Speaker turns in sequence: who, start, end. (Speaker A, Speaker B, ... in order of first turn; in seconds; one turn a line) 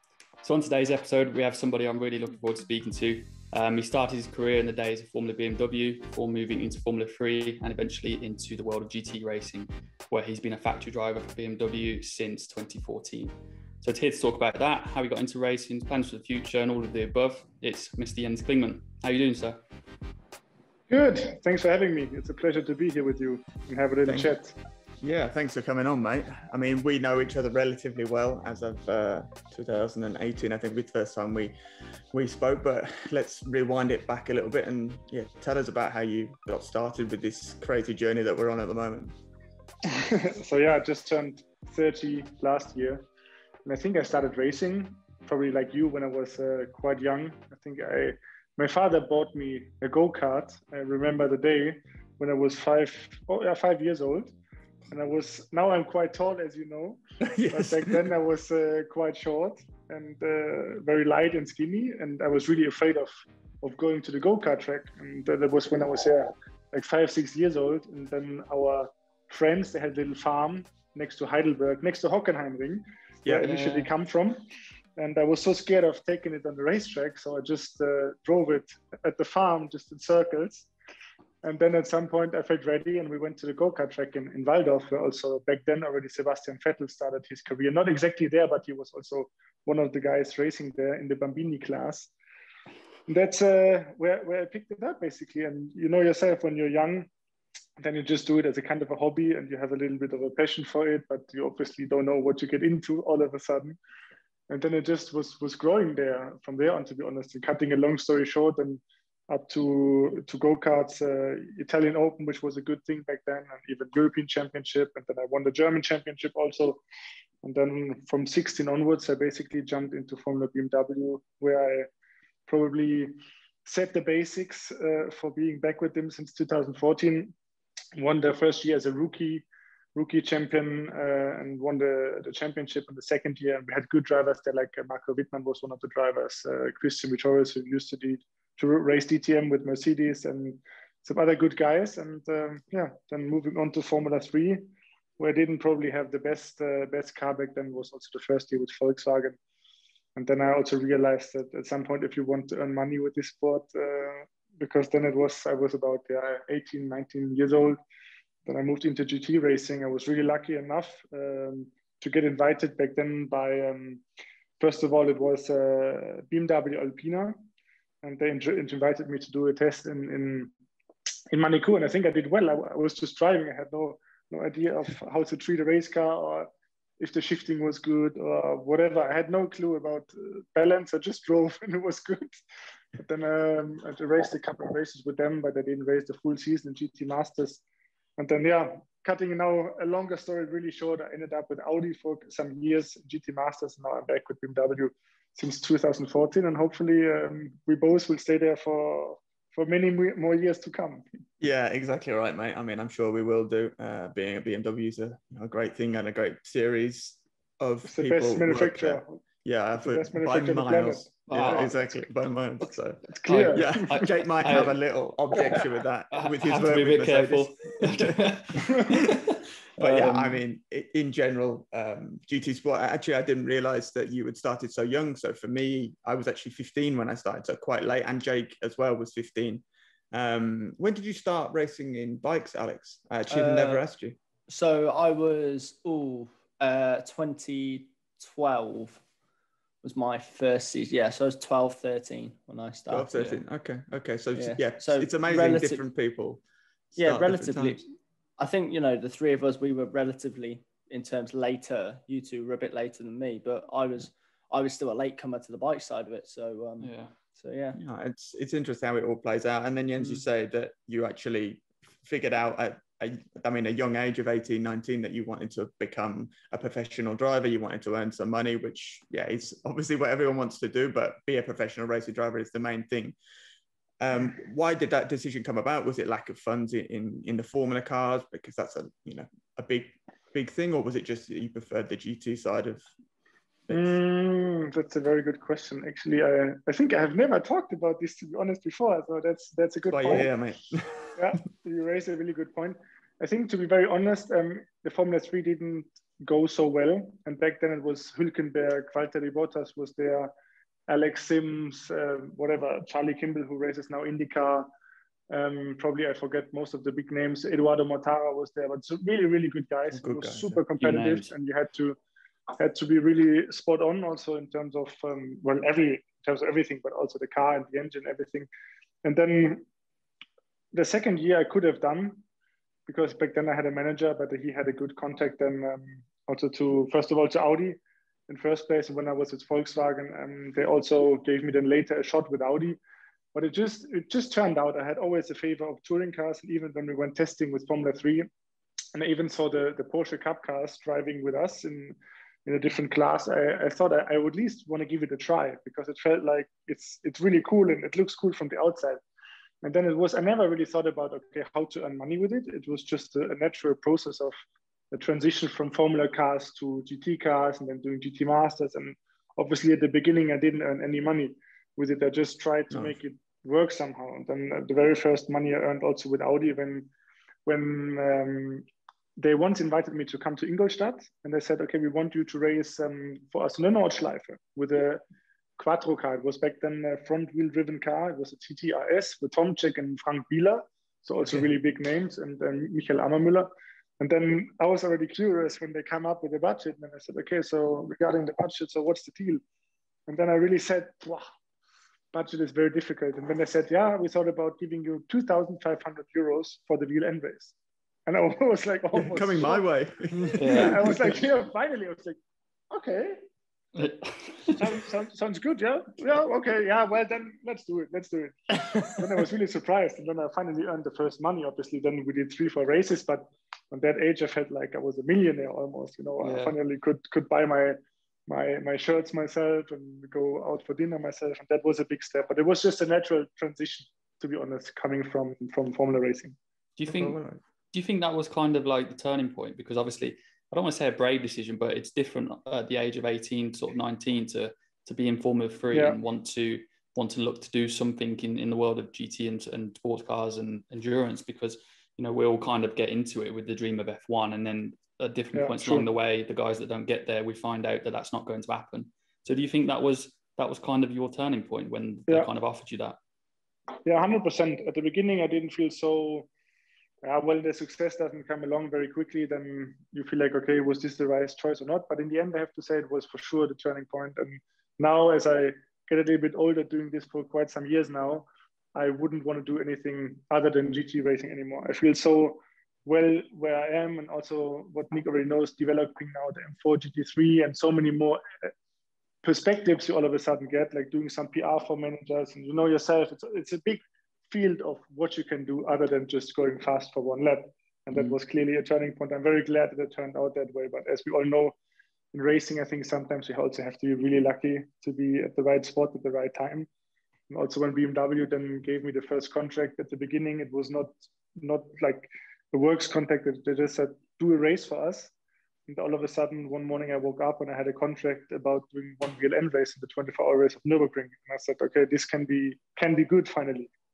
Speaker A: 0.4-19.6
Speaker B: 20.9-24.6
Speaker C: 24.1-24.3
Speaker C: 25.0-31.6
Speaker C: 32.1-39.1
Speaker B: 39.9-43.0
Speaker B: 43.7-54.3
Speaker B: 54.9-74.4
Speaker C: 57.2-58.1
Speaker A: 73.3-73.9
Speaker B: 75.0-80.7
Speaker B: 81.4-92.1
Speaker B: 93.1-97.1
Speaker B: 97.8-103.8
Speaker B: 104.5-116.8
Speaker B: 117.4-121.9
Speaker B: 122.5-127.3
Speaker B: 128.0-144.7
Speaker B: 145.2-149.4
Speaker B: 150.2-157.8
Speaker B: 158.5-164.0
Speaker B: 164.6-167.4
Speaker B: 168.0-170.5
Speaker B: 171.3-176.5
Speaker B: 177.0-182.4
Speaker B: 183.0-187.6
Speaker B: 188.2-201.1
Speaker C: 201.4-234.2
Speaker B: 207.9-209.2
Speaker B: 209.8-212.0
Speaker A: 211.3-211.7
Speaker B: 213.1-214.0
Speaker A: 213.3-214.8
Speaker A: 216.1-220.4
Speaker D: 233.3-233.8
Speaker D: 234.5-239.0
Speaker D: 239.8-243.1
Speaker C: 242.9-246.4
Speaker A: 243.1-243.4
Speaker D: 244.3-245.8
Speaker C: 246.9-247.8
Speaker D: 247.0-247.8
Speaker D: 248.4-257.8
Speaker A: 256.8-257.1
Speaker C: 257.7-273.2
Speaker C: 274.0-282.8
Speaker C: 283.7-283.9
Speaker B: 283.7-290.3
Speaker C: 289.9-291.2
Speaker B: 291.2-300.3
Speaker B: 300.9-304.7
Speaker B: 305.3-312.0
Speaker C: 309.9-310.6
Speaker A: 310.8-311.3
Speaker B: 312.6-318.5
Speaker B: 319.0-319.6
Speaker B: 320.7-322.2
Speaker B: 322.9-332.8
Speaker B: 333.3-338.3
Speaker B: 338.9-349.0
Speaker B: 349.6-354.4
Speaker B: 354.9-366.9
Speaker C: 362.7-363.0
Speaker B: 367.5-368.7
Speaker B: 369.2-375.0
Speaker B: 375.6-389.4
Speaker B: 390.1-391.3
Speaker B: 392.1-397.5
Speaker B: 398.1-399.6
Speaker C: 399.0-401.1
Speaker B: 400.3-402.2
Speaker A: 400.4-401.1
Speaker B: 402.7-403.2
Speaker A: 403.8-404.8
Speaker B: 404.6-426.4
Speaker A: 416.2-416.5
Speaker A: 426.8-427.2
Speaker C: 426.9-427.4
Speaker A: 427.7-453.0
Speaker B: 435.7-436.0
Speaker B: 445.3-445.9
Speaker B: 453.9-456.3
Speaker B: 457.0-478.5
Speaker B: 479.2-491.6
Speaker B: 492.1-496.7
Speaker B: 497.3-505.1
Speaker B: 505.7-513.7